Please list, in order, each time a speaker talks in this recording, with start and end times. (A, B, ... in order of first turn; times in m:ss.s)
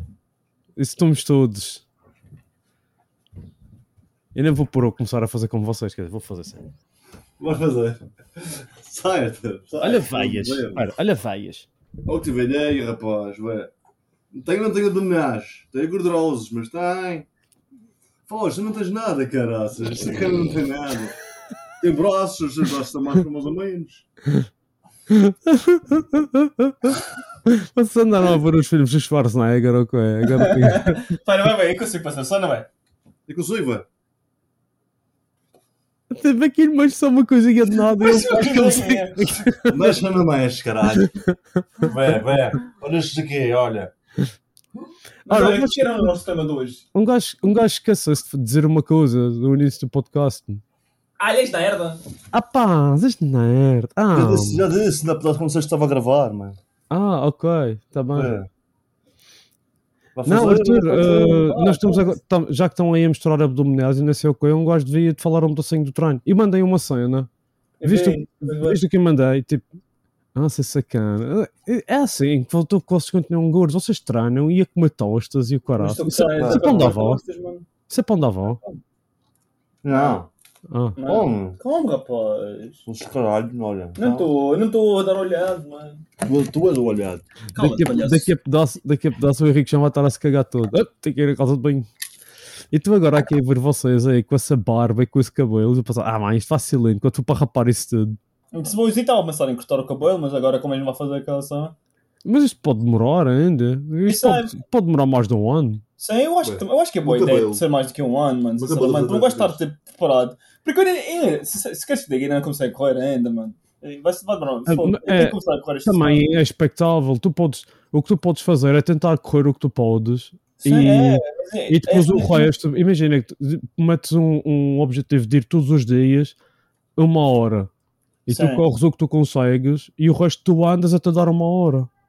0:00.8-0:01.8 A
0:04.3-0:06.6 A
0:07.4-0:10.9 B
0:09.8-0:11.7 A
0:12.0-0:13.7 B
0:14.3-0:17.3 B
0:18.3-0:21.2 B
0:21.8-0:24.0 B
0:25.1-0:31.0 A
0:30.3-0:32.7 C
0:33.3-0:33.8 B
0:36.1-0:39.8 A
0:37.7-0:39.6 C
0:39.7-0:41.1 B
0:41.8-0:43.9 B
0:45.2-0:46.8 C
0:45.3-0:46.0 A
0:46.9-0:50.6 A
0:51.2-0:52.0 C
0:52.3-0:54.6 A
0:54.1-0:56.6 B
0:56.9-0:58.3 A
0:58.1-0:58.5 B
1:00.1-1:01.2 B
1:00.2-1:07.3 A
1:00.9-1:02.2 C
1:07.8-1:08.8 C
1:07.8-1:09.6 A
1:10.3-1:17.2 A
1:15.8-1:17.6 C
1:16.3-1:16.9 B
1:17.9-1:18.6 A
1:19.8-1:20.3 B
1:19.9-1:20.2 C
1:20.7-1:21.0 A
1:21.0-1:22.8 C
1:21.0-1:21.6 B
1:22.8-1:24.3 B
1:24.0-1:26.0 C
1:26.2-1:27.2 B
1:27.5-1:28.3 C
1:27.6-1:31.9 A
1:32.7-1:38.2 A
1:38.5-1:41.7 C
1:42.2-1:45.8 A
1:44.0-1:44.6 C
1:46.0-1:56.2 C
1:46.4-1:47.6 B
1:48.6-1:49.6 B
1:54.7-2:06.4 A
2:00.6-2:02.5 C
2:07.0-2:07.7 A
2:08.3-2:11.9 A
2:08.3-2:08.6 C